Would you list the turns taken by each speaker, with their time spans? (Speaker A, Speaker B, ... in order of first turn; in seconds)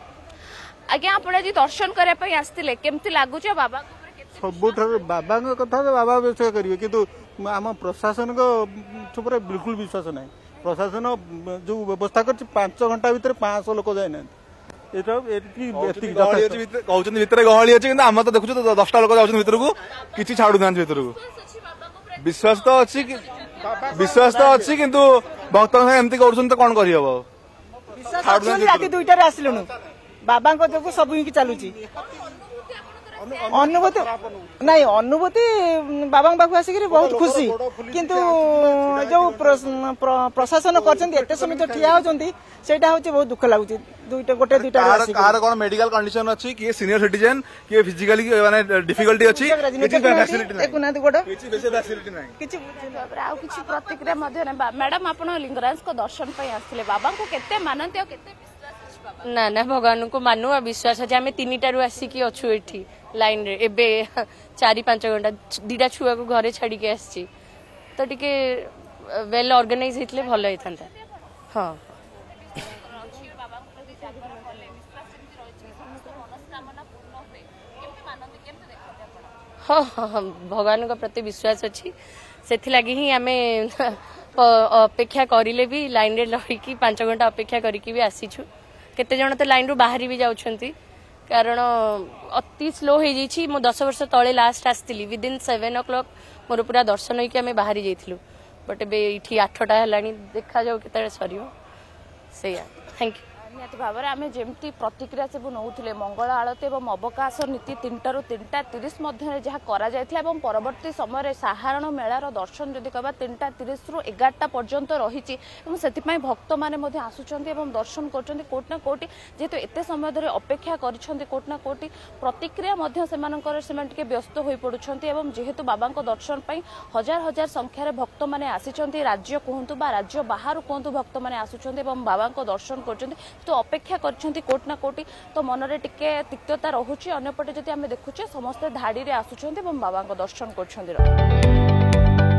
Speaker A: 0.9-4.9, 52.9-58.4, 72.5-79.0, 103.5-141.1
Speaker B: 4.4-14.3, 14.9-16.6, 36.9-38.1
Speaker C: 15.7-21.2, 22.1-27.2, 28.2-29.0, 44.5-52.4
Speaker D: 28.0-29.7, 30.2-31.8, 33.5-45.4, 49.0-51.3, 52.4-52.9
Speaker E: 59.2-67.3, 68.0-70.9, 71.5-71.8, 79.6-81.9, 82.5-90.7, 91.3-101.5, 102.3-103.2